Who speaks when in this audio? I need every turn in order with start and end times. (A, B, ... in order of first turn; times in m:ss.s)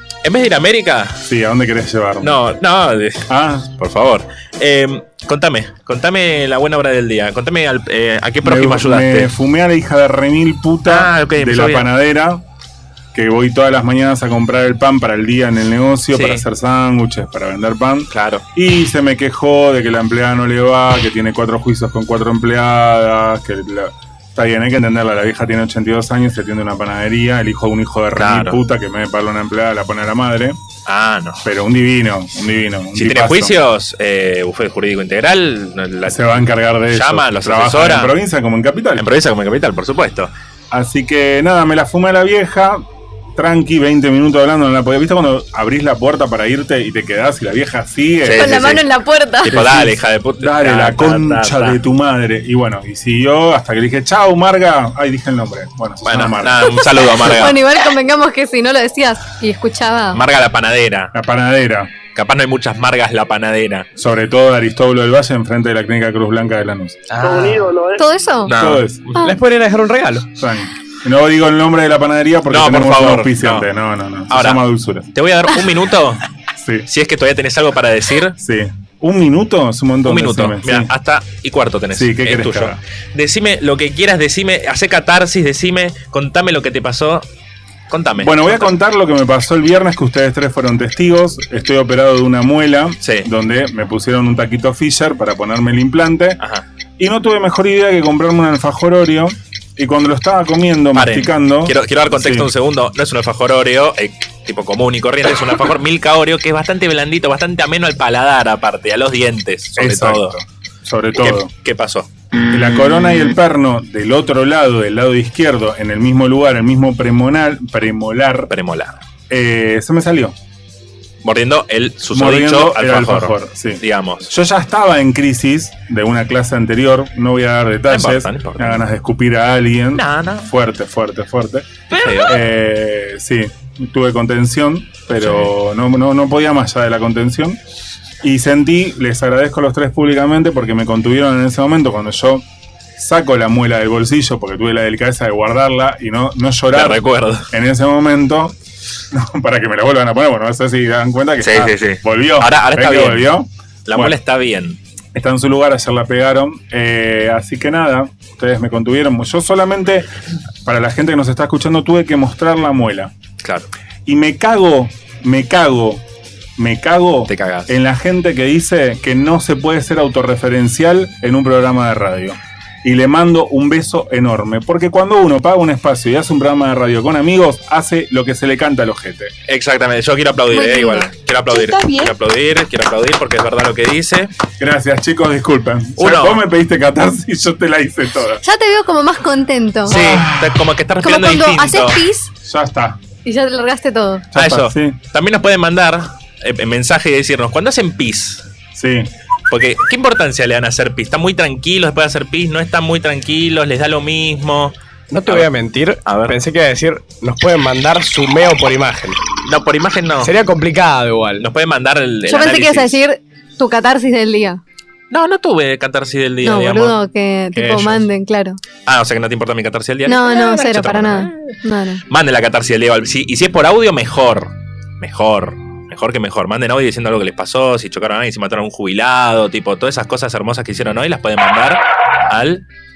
0:00.2-0:01.2 A
0:01.2-0:02.4 B
0:02.2-0:09.3 A
0:03.3-0:03.7 B
0:08.4-0:12.4 B
0:10.8-0:11.9 A
0:13.1-0:30.6 B
0:16.1-0:16.4 A
0:18.1-0:18.4 A
0:28.1-0:28.6 A
0:30.9-0:31.5 A
0:31.4-0:33.5 B
0:33.0-0:38.1 A
0:36.0-0:39.1 B
0:39.0-0:40.3 A
0:40.7-0:42.8 B
0:43.4-0:48.6 B
0:48.2-0:48.8 A
0:48.4-0:49.6 C
0:49.4-0:51.8 A
0:49.5-0:56.8 B
0:56.0-0:57.6 A
0:57.2-1:00.2 C
1:00.1-1:01.1 A
1:01.1-1:01.9 B
1:02.1-1:03.9 A
1:04.0-1:07.0 B
1:07.2-1:07.8 D
1:07.2-1:07.7 A
1:08.0-1:08.5 C
1:08.4-1:09.4 A
1:08.5-1:09.0 B
1:09.2-1:10.3 D
1:10.4-1:15.1 B
1:12.5-1:13.7 A
1:14.3-1:14.6 A
1:15.1-1:16.2 A
1:16.6-1:16.9 B
1:16.9-1:18.3 A
1:18.4-1:20.9 B
1:20.0-1:27.2 A
1:21.9-1:22.8 B
1:27.9-1:28.7 A
1:28.2-1:36.4 B
1:33.0-1:33.3 A
1:36.4-1:36.6 A
1:37.0-1:42.5 B
1:40.9-1:50.3 A
1:49.8-1:51.5 B
1:51.1-1:52.1 A
1:52.5-1:58.5 B
1:58.5-1:59.0 A
1:59.3-2:00.4 B
2:01.2-2:04.3 A
2:02.1-2:17.6 B
2:07.9-2:08.8 A
2:09.9-2:10.5 A
2:11.9-2:12.4 A
2:15.1-2:15.5 A
2:18.2-2:22.4 B
2:23.0-2:28.6 B
2:26.7-2:27.5 A
2:29.1-2:34.2 B
2:31.4-2:33.3 A
2:33.9-2:34.8 A
2:35.1-2:40.1 B
2:40.6-2:43.1 B
2:43.4-2:43.7 A
2:44.0-2:46.0 B
2:46.6-2:59.3 B
2:47.3-2:47.7 A
2:59.5-3:04.3 A
3:00.5-3:01.9 C
3:04.6-3:08.4 B
3:06.0-3:06.4 A
3:08.4-3:10.0 C
3:09.9-3:12.0 A
3:09.9-3:10.6 B
3:11.0-3:12.3 C
3:12.4-3:13.0 B
3:13.2-3:14.2 C
3:14.3-3:15.0 B
3:14.3-3:18.4 A
3:18.7-3:19.1 B
3:19.5-3:24.7 A
3:25.1-3:29.2 D
3:26.0-3:26.4 A
3:29.4-3:30.3 A
3:30.2-3:31.4 D
3:31.4-3:33.0 A
3:32.3-3:34.6 C
3:35.1-3:37.0 A
3:36.4-3:38.6 C
3:37.5-3:38.0 D
3:38.8-3:41.6 A
3:40.0-3:42.0 C
3:42.1-3:52.6 A